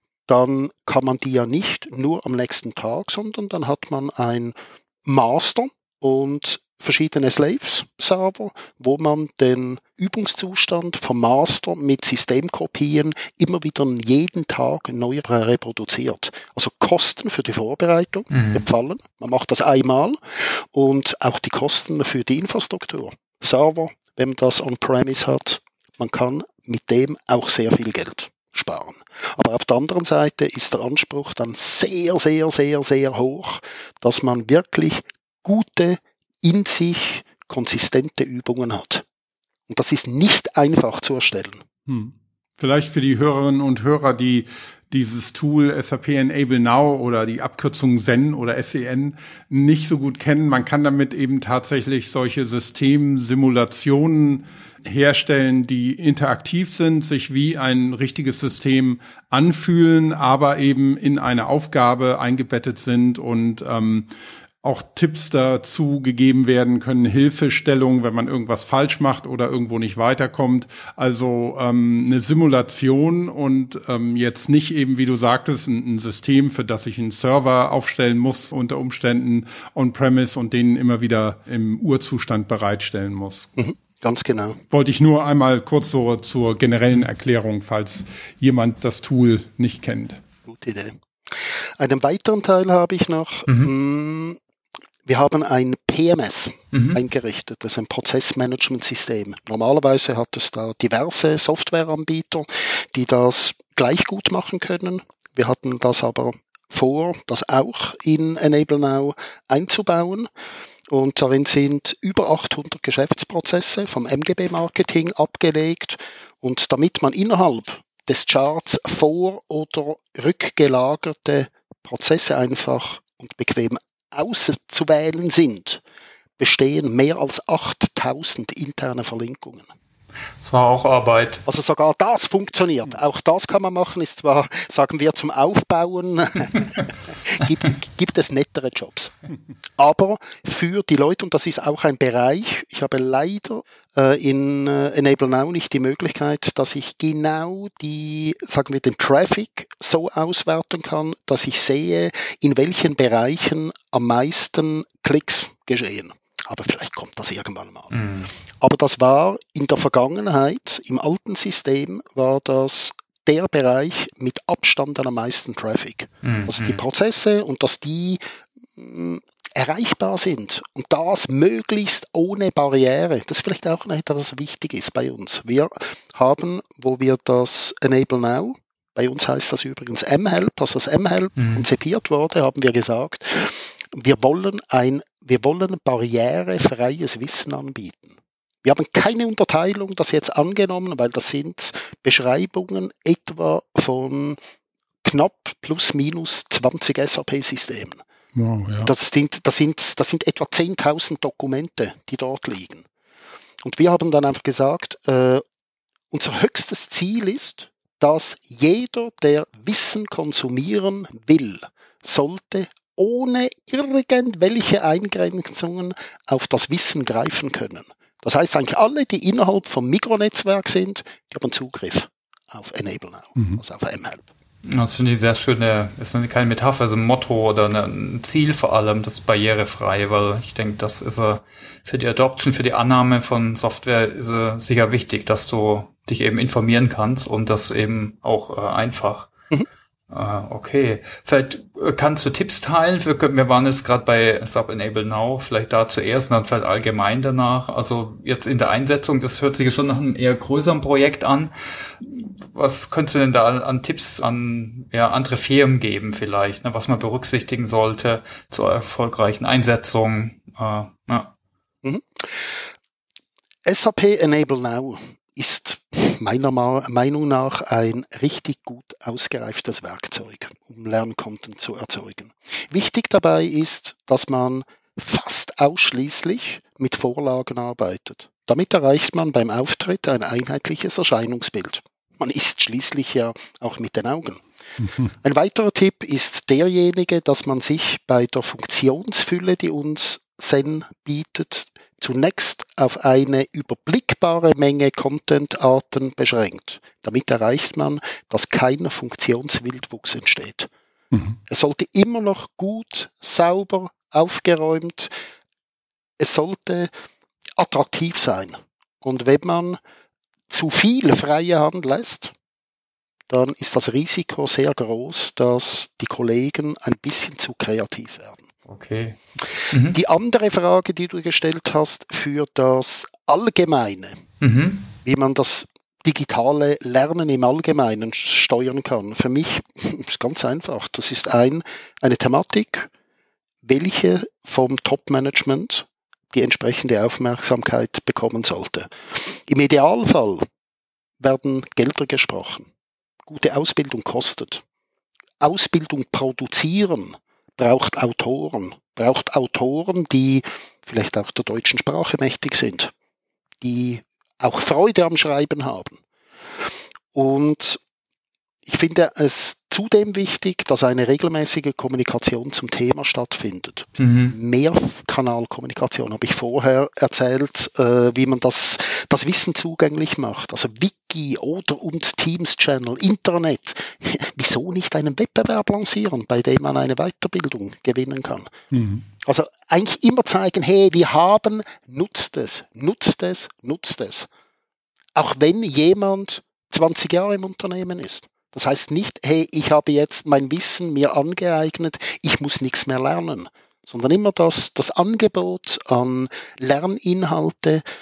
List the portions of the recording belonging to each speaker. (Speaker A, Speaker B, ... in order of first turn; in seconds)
Speaker A: 0.3-39.0, 39.7-41.6, 83.6-84.6, 90.5-94.4, 95.0-110.3, 110.9-125.8, 126.4-129.7, 131.5-139.1, 139.8-157.9, 158.6-168.2, 168.8-194.4, 195.0-198.0, 198.8-202.8, 203.6-205.4, 206.1-224.3, 261.8-262.5, 263.6-284.4, 285.2-300.7, 301.5-305.1, 306.2-306.9, 307.6-309.8, 310.5-312.3, 313.3-318.5, 319.9-324.2, 325.0-332.9, 333.6-340.4, 341.2-342.7, 343.3-344.6, 345.4-352.9, 353.6-356.0, 357.1-357.8, 358.6-378.5, 379.2-384.3, 385.1-397.8
Speaker B: 18.3-18.6, 93.5-93.7, 96.7-97.0, 130.4-131.4, 157.9-158.3, 166.2-166.8, 181.4-181.6, 224.7-239.3, 240.1-261.3, 318.7-320.0, 324.4-324.9, 364.0-364.3
Speaker C: 41.9-64.1, 64.6-83.5, 84.7-90.2, 198.3-198.9, 378.7-379.0